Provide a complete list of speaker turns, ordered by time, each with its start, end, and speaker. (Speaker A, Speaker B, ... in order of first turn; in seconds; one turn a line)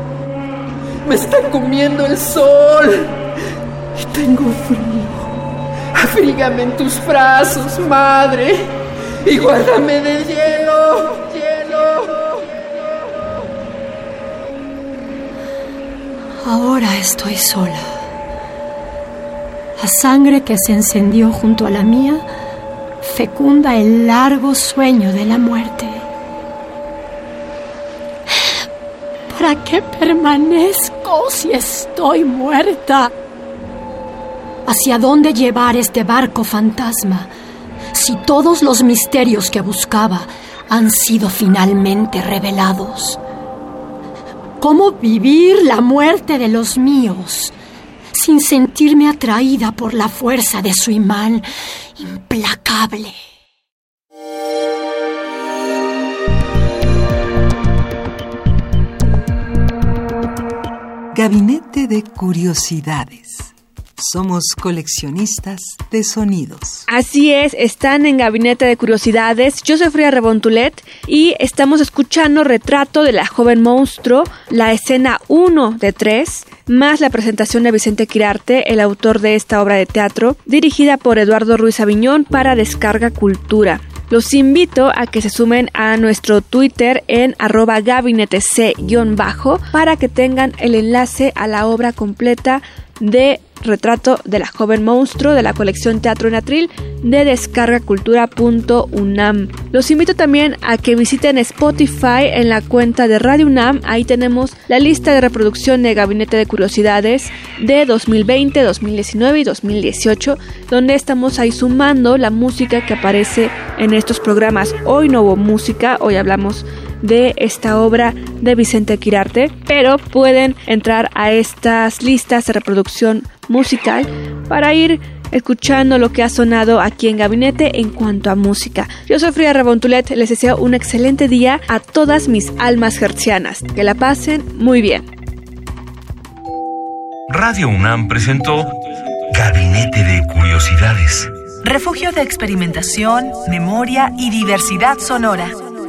Speaker A: 1.0-3.2
Speaker A: 4.0-5.4
Speaker A: 5.9-12.5
Speaker B: 16.4-17.9
Speaker B: 19.8-22.3
Speaker B: 23.0-26.1
Speaker B: 29.3-33.1
Speaker B: 34.6-37.3
Speaker B: 37.9-43.2
Speaker B: 44.6-47.5
Speaker B: 48.1-53.1
Speaker C: 61.1-66.8
Speaker D: 66.9-135.1
Speaker E: 137.3-138.7
Speaker E: 139.3-141.3
Speaker F: 141.6-145.5